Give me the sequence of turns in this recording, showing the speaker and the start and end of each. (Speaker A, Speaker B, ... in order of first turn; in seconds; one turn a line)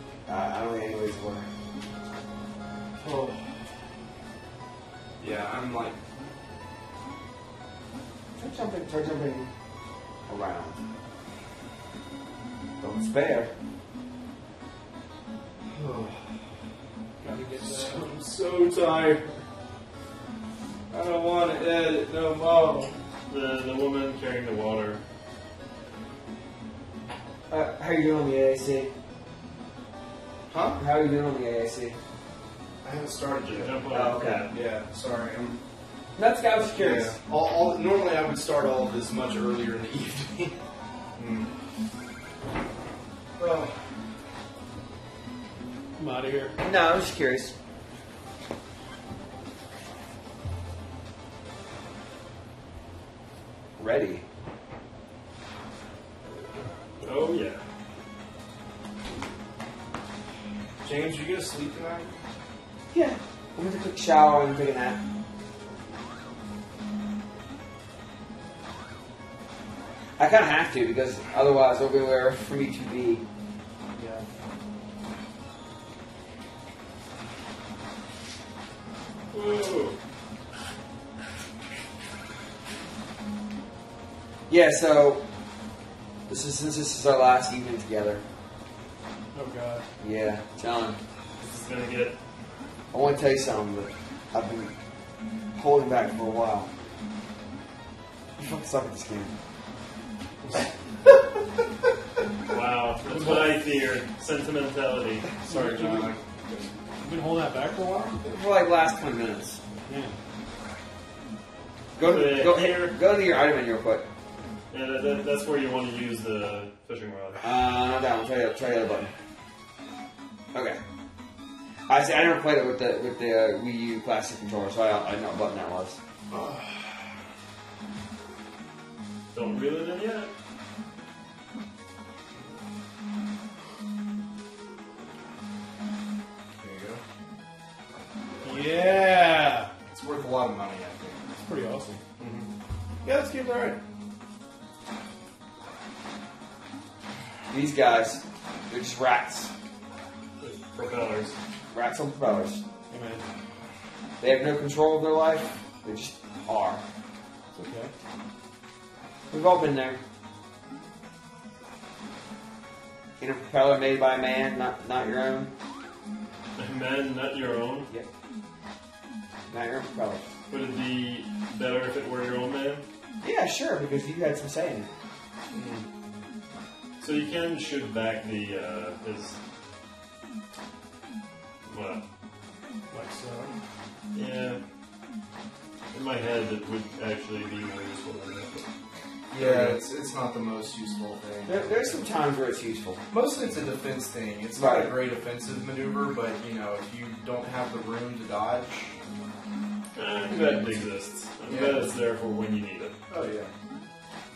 Speaker A: 0.3-1.5
Speaker B: 3.0-3.4
Speaker C: 5.2-6.0
Speaker A: 8.4-9.5
Speaker A: 10.3-10.8
Speaker A: 12.8-13.5
Speaker C: 15.7-16.3
Speaker B: 17.2-18.1
Speaker C: 17.5-19.4
Speaker C: 20.9-22.9
Speaker D: 23.3-25.0
Speaker A: 27.5-28.9
Speaker C: 30.5-30.8
Speaker A: 30.8-32.0
Speaker C: 32.8-35.6
Speaker D: 33.5-34.5
Speaker A: 33.9-34.5
Speaker A: 36.2-37.2
Speaker C: 36.6-40.6
Speaker C: 41.2-41.5
Speaker C: 43.4-43.8
Speaker B: 46.0-46.6
Speaker A: 46.6-47.5
Speaker A: 53.8-54.2
Speaker D: 57.0-57.6
Speaker C: 60.8-62.1
Speaker A: 62.9-65.0
Speaker A: 70.2-73.2
Speaker B: 73.9-74.3
Speaker D: 79.3-80.0
Speaker A: 84.5-85.2
Speaker A: 86.3-88.2
Speaker B: 89.3-89.8
Speaker A: 90.0-91.0
Speaker D: 91.4-92.2
Speaker A: 92.9-94.7
Speaker A: 95.6-96.7
Speaker A: 98.4-99.3
Speaker D: 102.5-105.3
Speaker B: 103.0-103.6
Speaker C: 105.4-106.7
Speaker B: 105.5-106.2
Speaker B: 107.0-108.2
Speaker A: 108.3-109.6
Speaker B: 109.9-110.2
Speaker A: 112.0-114.0
Speaker D: 112.0-113.0
Speaker D: 114.7-117.6
Speaker A: 117.4-119.1
Speaker A: 120.5-120.8
Speaker A: 121.9-126.0
Speaker D: 129.3-130.3
Speaker C: 136.6-137.0
Speaker B: 138.4-139.7
Speaker C: 139.9-141.3
Speaker B: 141.4-142.0
Speaker C: 142.2-142.5
Speaker B: 143.1-143.8
Speaker A: 147.5-149.5
Speaker D: 150.4-151.3
Speaker A: 151.7-152.6
Speaker B: 152.9-153.2
Speaker A: 154.2-156.8
Speaker B: 157.5-157.9
Speaker A: 159.3-160.0
Speaker A: 163.2-165.5
Speaker D: 166.6-167.9
Speaker A: 169.5-170.2
Speaker D: 170.5-172.8
Speaker A: 173.2-174.9
Speaker D: 177.0-179.4
Speaker D: 181.7-182.0
Speaker B: 182.9-183.6
Speaker D: 184.1-184.6
Speaker D: 185.9-188.7
Speaker C: 189.3-192.0
Speaker A: 189.3-189.8
Speaker A: 191.5-193.0
Speaker C: 193.1-198.9
Speaker A: 194.6-194.9
Speaker D: 199.9-203.0
Speaker C: 200.3-200.8
Speaker C: 201.5-201.9
Speaker C: 203.1-203.5